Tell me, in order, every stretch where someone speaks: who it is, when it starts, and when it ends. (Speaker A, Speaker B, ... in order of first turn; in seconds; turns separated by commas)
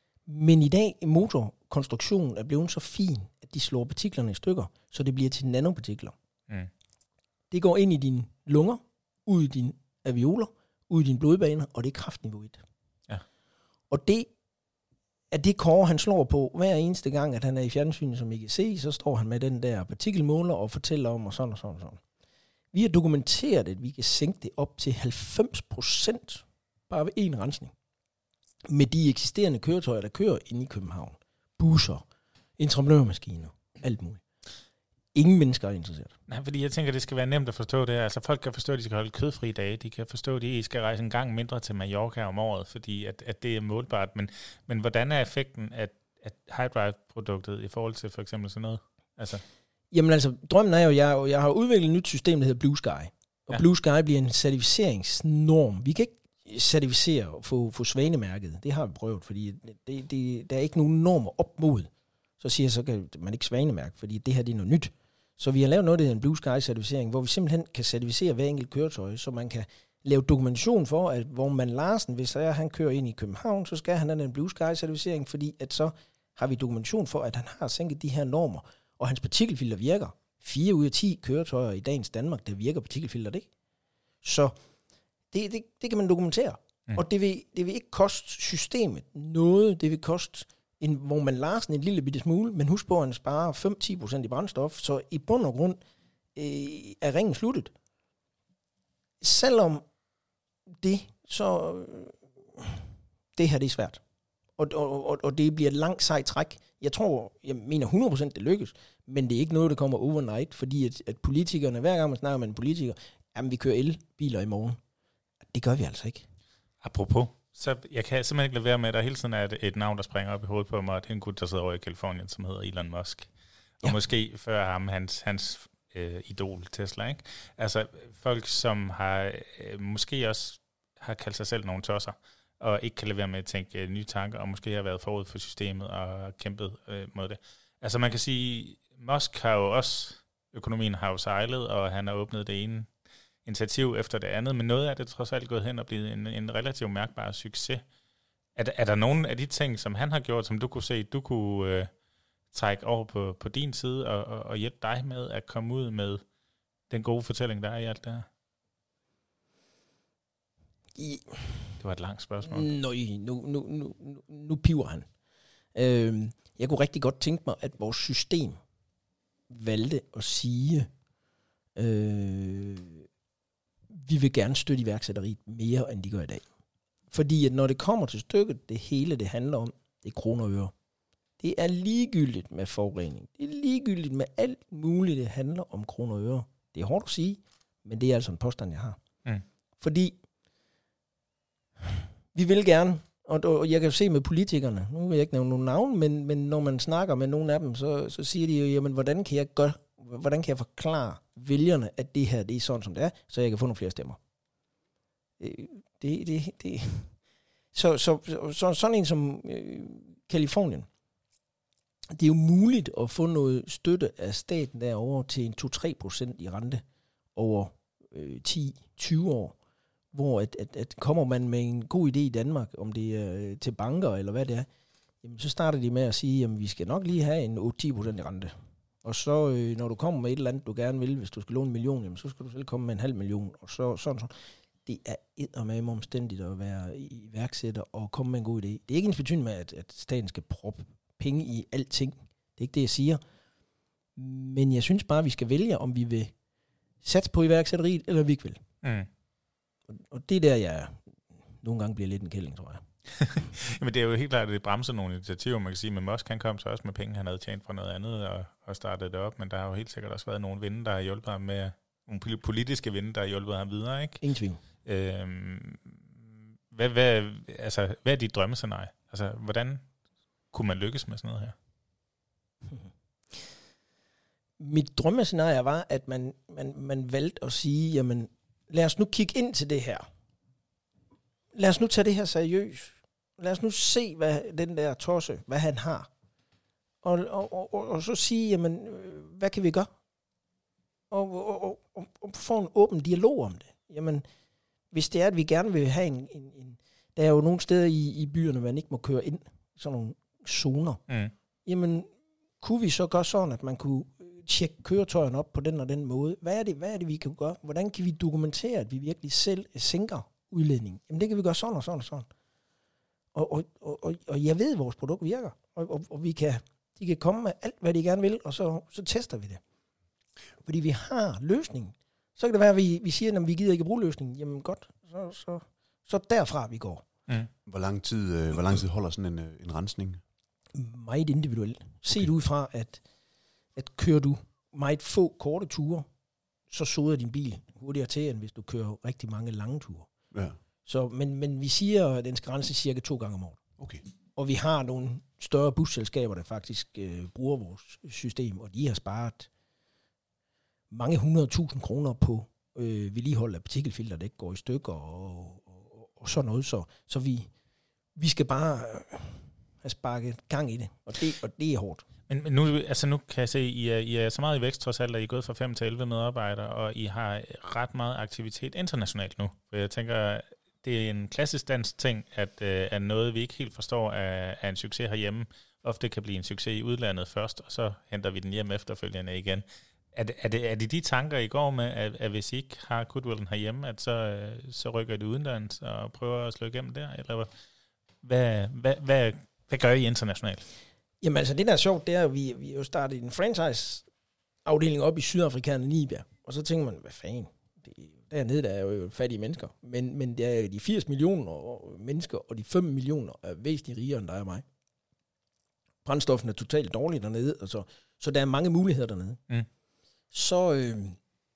Speaker A: 0.3-6.1, Speaker A: 7.5-12.6, Speaker A: 13.9-14.3, Speaker A: 15.3-22.0, Speaker A: 22.7-27.7, Speaker A: 28.7-32.0, Speaker A: 32.6-34.2, Speaker A: 35.1-36.1, Speaker B: 36.3-49.4, Speaker A: 49.9-61.9, Speaker A: 62.4-83.5, Speaker A: 84.2-84.5, Speaker A: 85.3-95.8, Speaker A: 96.3-97.7, Speaker A: 99.2-99.8, Speaker A: 100.8-102.8, Speaker A: 103.3-104.0, Speaker A: 104.6-114.8, Speaker A: 115.5-116.2, Speaker B: 116.8-123.3, Speaker B: 123.8-142.9, Speaker B: 143.4-147.8, Speaker B: 148.6-151.9, Speaker B: 152.5-156.2, Speaker B: 156.9-158.2, Speaker A: 161.0-161.7, Speaker B: 161.8-162.7, Speaker A: 162.4-165.1, Speaker A: 165.7-168.6, Speaker A: 169.5-170.9, Speaker A: 171.8-173.0, Speaker A: 173.9-176.4, Speaker A: 177.1-180.7, Speaker A: 181.4-189.0, Speaker A: 189.8-190.1, Speaker A: 192.3-204.2, Speaker A: 205.4-207.1, Speaker A: 207.7-210.9, Speaker A: 212.1-216.8, Speaker A: 217.3-219.6, Speaker A: 220.1-224.7, Speaker A: 225.2-234.3, Speaker A: 234.8-243.2, Speaker A: 244.2-246.3, Speaker A: 247.0-248.6, Speaker B: 248.8-249.1, Speaker A: 249.9-251.0, Speaker A: 251.6-252.8, Speaker B: 253.2-264.2, Speaker A: 264.2-264.6, Speaker B: 264.8-265.9, Speaker B: 266.7-269.8, Speaker B: 270.5-271.5, Speaker A: 274.6-280.1, Speaker A: 281.5-286.1, Speaker A: 287.0-289.9, Speaker A: 291.1-294.2, Speaker A: 294.9-301.0, Speaker A: 301.6-302.1, Speaker A: 302.6-312.3, Speaker A: 313.3-319.6, Speaker A: 320.6-327.0, Speaker C: 327.6-330.2, Speaker A: 330.7-333.0, Speaker A: 333.7-336.1, Speaker A: 336.7-340.1, Speaker A: 340.9-343.6, Speaker A: 344.4-349.5, Speaker A: 350.9-357.5, Speaker A: 358.1-362.0, Speaker B: 362.3-387.5, Speaker B: 388.2-390.6, Speaker A: 391.2-394.0, Speaker A: 394.6-404.6, Speaker A: 406.0-409.4, Speaker A: 410.3-411.2